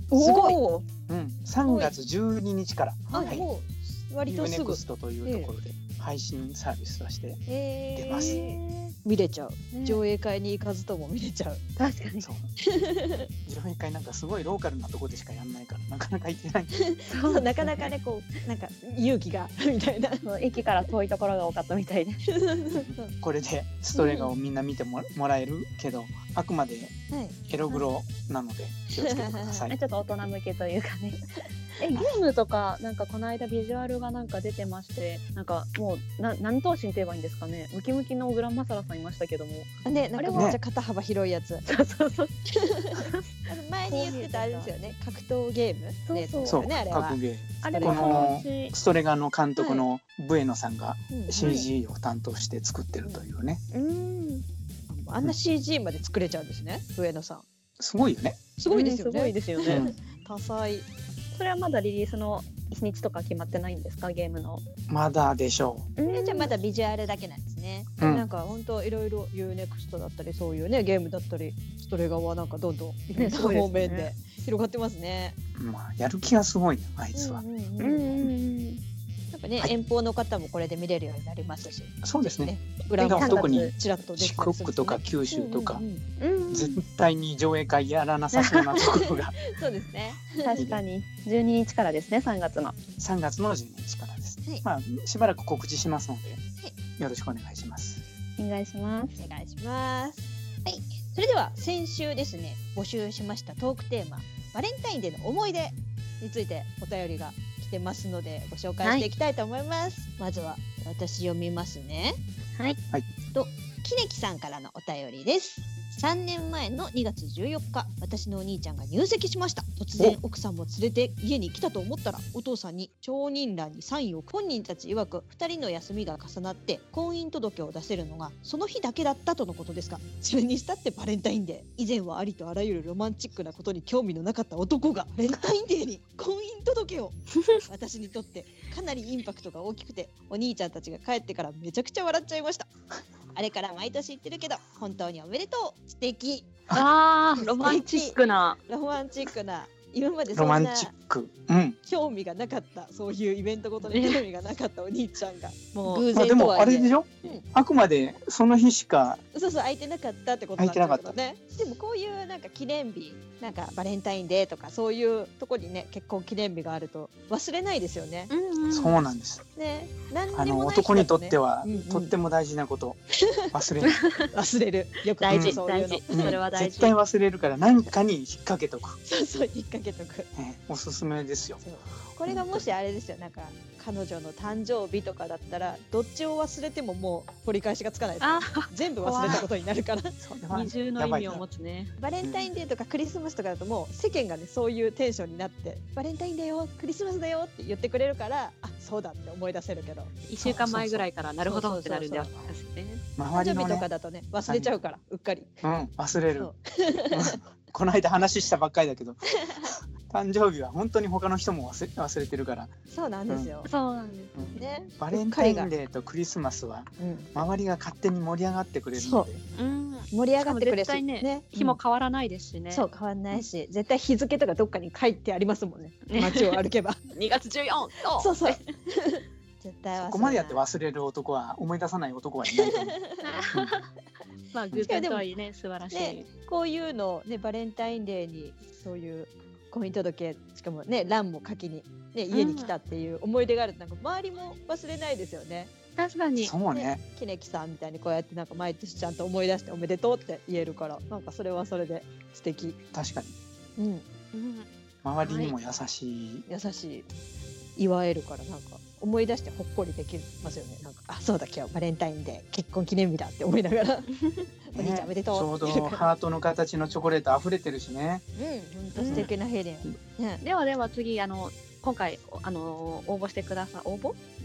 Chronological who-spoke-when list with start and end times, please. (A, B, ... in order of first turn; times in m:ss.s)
0:00.1-0:00.6 A
0:00.1-0:00.9 B
0:01.1-0:03.5 C
0:01.6-0:01.9 B
0:03.1-0:05.5 B
0:03.1-0:03.4 A
0:04.3-0:07.4 C
0:07.5-0:11.6 B
0:08.0-0:08.4 C
0:08.1-0:08.6 A
0:09.7-0:10.0 A
0:11.8-0:12.3 A
0:12.2-0:12.5 C
0:12.6-0:13.3 B
0:13.4-0:16.7 C
0:16.7-0:20.3 B
0:17.1-0:17.9 A
0:20.2-0:22.2 A
0:22.3-0:23.1 B
0:22.7-0:26.9 C
0:24.0-0:24.3 B
0:27.1-0:27.4 B
0:27.5-0:29.8 C
0:29.0-0:29.6 B
0:29.7-0:31.2 A
0:31.8-0:40.5 A
0:39.8-0:41.7 B
0:40.3-0:40.6 C
0:41.7-0:42.4 A
0:42.6-0:48.3 B
0:43.0-0:43.3 A
0:43.9-0:44.7 A
0:46.1-0:46.7 A
0:46.4-0:53.6 C
0:47.6-0:48.7 A
0:49.6-0:49.8 A
0:51.1-0:51.6 B
0:51.4-0:51.7 A
0:53.7-0:54.4 A
0:54.9-0:57.5 B
0:57.8-0:58.4 C
0:58.6-1:00.9 B
0:58.7-0:59.8 A
0:59.7-1:00.0 C
1:01.3-1:04.6 A
1:04.9-1:05.9 C
1:06.0-1:06.5 A
1:06.1-1:15.4 B
1:08.0-1:08.2 C
1:13.2-1:14.1 A
1:15.6-1:17.4 C
1:17.1-1:18.2 B
1:17.8-1:18.8 A
1:19.3-1:26.0 B
1:22.0-1:25.8 C
1:23.0-1:23.7 A
1:26.2-1:26.8 A
1:26.5-1:29.4 C
1:28.3-1:28.8 A
1:28.8-1:30.8 B
1:30.4-1:32.8 A
1:33.0-1:36.4 C
1:37.0-1:38.0 C
1:38.4-1:39.2 A
1:39.2-1:52.2 B
1:53.3-2:22.7 B
2:23.3-2:26.5 B
2:26.7-2:28.6 A
2:27.4-2:30.9 B
2:30.3-2:31.8 C
2:31.9-2:37.4 B
2:33.9-2:34.2 A
2:36.1-2:39.2 C
2:39.3-2:48.3 B
2:40.6-2:41.2 C
2:48.3-2:49.0 A
2:48.7-2:49.4 C
2:49.6-2:52.1 B
2:50.3-2:54.1 C
2:53.3-2:53.5 B
2:53.9-2:54.3 A
2:54.3-2:56.4 B
2:55.2-2:56.9 A
2:55.3-2:55.6 C
2:56.1-2:59.0 C
2:59.0-3:00.3 B
3:00.4-3:01.6 C
3:01.6-3:10.2 B
3:02.3-3:02.6 C
3:08.2-3:09.4 A
3:10.2-3:11.4 C
3:10.5-3:11.9 A
3:12.0-3:20.2 B
3:12.2-3:12.5 C
3:20.3-3:23.0 A
3:20.4-3:21.0 C
3:21.4-3:22.5 B
3:23.2-3:23.9 C
3:23.3-3:25.5 B
3:24.5-3:24.7 C
3:25.6-3:26.5 C
3:26.4-3:27.4 B
3:27.1-3:32.7 C
3:29.4-3:29.7 B
3:32.9-3:33.7 B
3:33.7-3:34.6 A
3:34.4-3:39.4 C
3:34.6-3:35.7 B
3:37.0-3:37.3 B
3:39.0-3:39.3 B
3:39.6-3:42.8 A
3:40.1-3:41.8 B
3:42.7-3:47.0 B
3:46.1-3:48.6 A
3:48.2-3:50.6 B
3:50.0-3:53.0 C
3:52.6-3:53.2 B
3:53.2-3:53.9 A
3:54.5-3:56.3 A
3:54.8-3:55.3 B
3:55.9-4:05.7 B
4:02.3-4:02.7 A
4:06.0-4:06.5 A
4:06.4-4:07.0 C
4:06.7-4:12.8 B
4:12.9-4:13.4 C
4:13.8-4:14.1 B
4:14.3-4:14.7 A
4:15.0-4:16.4 C
4:15.2-4:15.5 A
4:16.5-4:17.1 B
4:17.8-4:24.1 B
4:24.2-4:24.5 A
4:24.7-4:26.1 B
4:24.8-4:28.2 C
4:28.4-4:30.4 B
4:29.0-4:29.3 A
4:29.0-4:29.3 C
4:30.4-4:34.2 A